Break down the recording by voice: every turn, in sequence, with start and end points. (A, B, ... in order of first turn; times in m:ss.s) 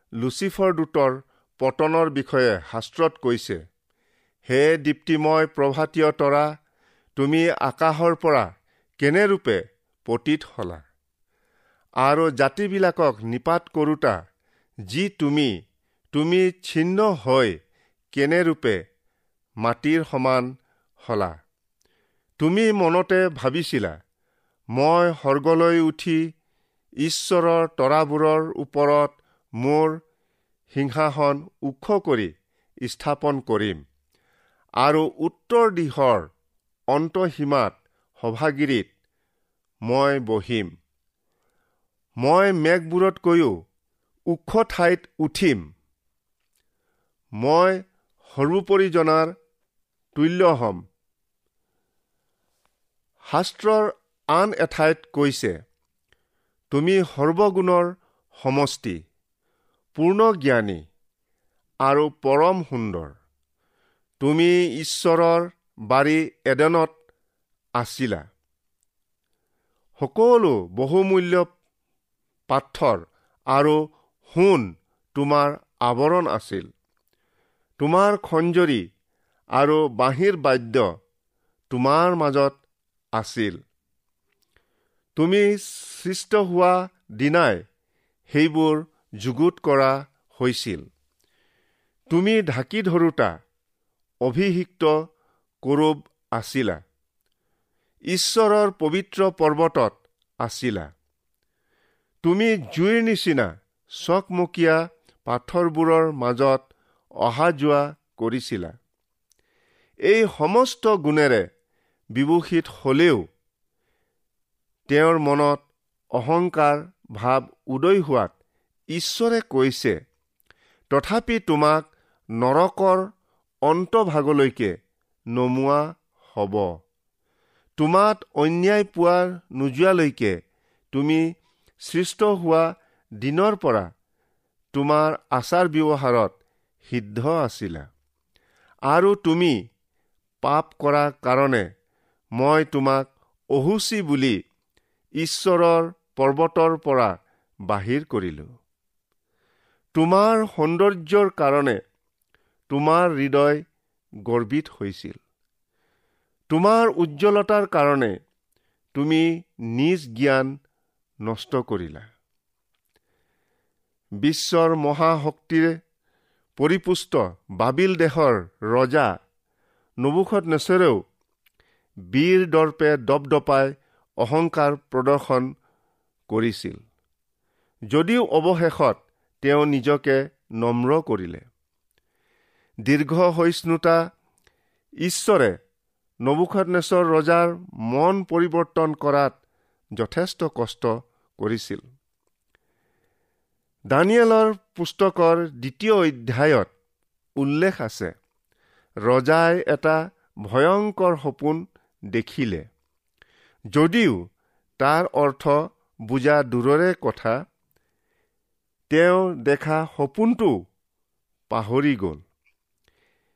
0:00.2-0:03.6 A
0:04.5-0:06.5 A
0:07.2-0:08.5 A
0:09.0-0:10.8 A
0:12.0-0:14.2 A
0:14.9-0:15.5 A
0:16.1-0:17.6 A
0:18.1-0:18.8 A
0:19.6-0:21.4 A
0:22.4-0:24.0 A
0:24.8-0:26.3 A
0:27.0-0:30.0 A
0:30.7-0:32.3 A
0:32.8-0:33.8 A
0:34.8-0:36.3 A
0:36.9-0:38.9 A
0:39.8-0:40.7 A
0:42.2-0:43.6 A
0:44.3-0:45.6 A
0:47.4-0:49.3 A
0:50.2-0:50.8 A
0:53.3-0:55.6 A
0:56.7-0:59.0 A
1:00.0-1:00.8 A
1:01.8-1:03.2 A
1:04.2-1:07.0 A
1:07.8-1:08.3 A
1:10.0-1:11.5 A
1:12.5-1:16.7 A
1:17.8-1:18.9 A
1:19.6-1:20.9 A
1:21.7-1:22.6 A
1:23.2-1:23.6 A
1:25.2-1:27.6 A
1:28.3-1:30.9 A
1:32.1-1:33.3 A
1:34.2-1:34.9 A
1:35.6-1:36.8 A
1:38.1-1:40.9 A
1:42.2-1:46.6 A
1:47.2-1:48.8 A
1:50.1-1:51.5 A
1:52.2-1:53.2 A
1:54.9-1:58.3 A
1:58.9-2:00.0 A
2:00.9-2:03.1 A
2:03.7-2:04.8 A
2:05.3-2:06.8 A
2:07.8-2:10.4 A
2:10.9-2:11.3 A
2:11.8-2:13.9 A
2:14.7-2:16.4 A
2:16.9-2:17.9 A
2:18.9-2:19.6 A
2:20.4-2:21.7 A
2:22.4-2:24.4 A
2:25.2-2:27.2 A
2:27.7-2:28.5 A
2:30.0-2:31.8 A
2:32.7-2:33.6 A
2:34.2-2:35.2 A
2:36.5-2:38.2 A
2:39.0-2:40.6 A
2:41.2-2:42.1 A
2:44.2-2:45.8 A
2:46.6-2:49.2 A
2:50.0-2:51.0 A
2:52.1-2:55.5 A
2:56.3-2:56.8 A
2:57.9-3:01.5 A
3:02.9-3:04.0 A
3:05.0-3:05.6 A
3:06.2-3:09.4 A
3:10.0-3:11.8 A
3:13.9-3:16.7 A
3:17.4-3:18.1 A
3:19.0-3:22.7 A
3:23.7-3:24.2 A
3:24.8-3:27.4 A
3:28.9-3:30.6 A
3:31.5-3:32.2 A